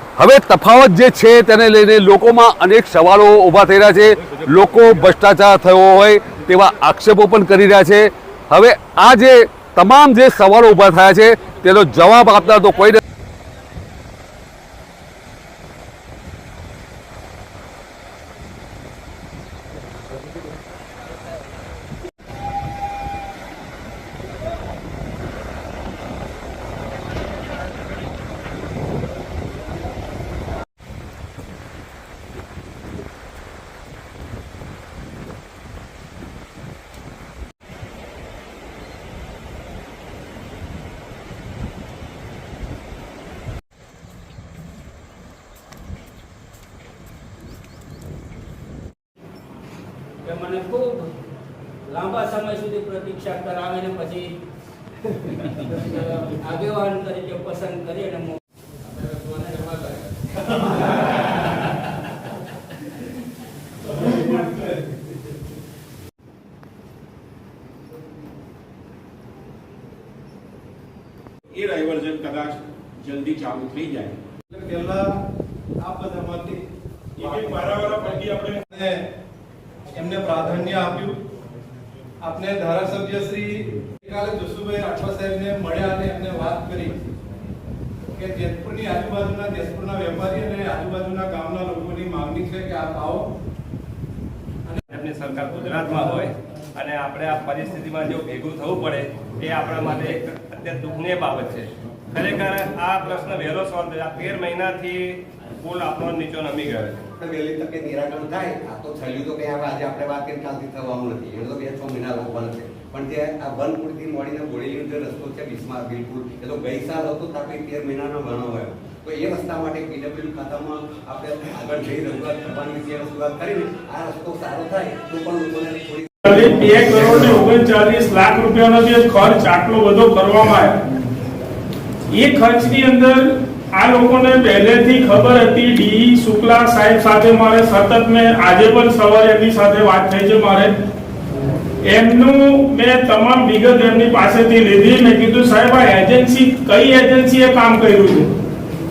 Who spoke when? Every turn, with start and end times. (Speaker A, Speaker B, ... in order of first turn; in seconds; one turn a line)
Speaker A: 0.2-13.0
Speaker B: 50.2-51.1
Speaker B: 51.9-54.4
Speaker B: 55.7-58.4
Speaker B: 59.3-59.7
Speaker C: 71.5-74.1
Speaker D: 74.5-75.2
Speaker D: 75.8-76.6
Speaker D: 77.2-79.0
Speaker D: 79.9-81.2
Speaker D: 82.2-87.0
Speaker D: 88.1-93.3
Speaker E: 94.9-107.0
Speaker F: 107.2-126.0
Speaker G: 126.2-130.8
Speaker G: 132.1-140.8
Speaker G: 141.8-148.3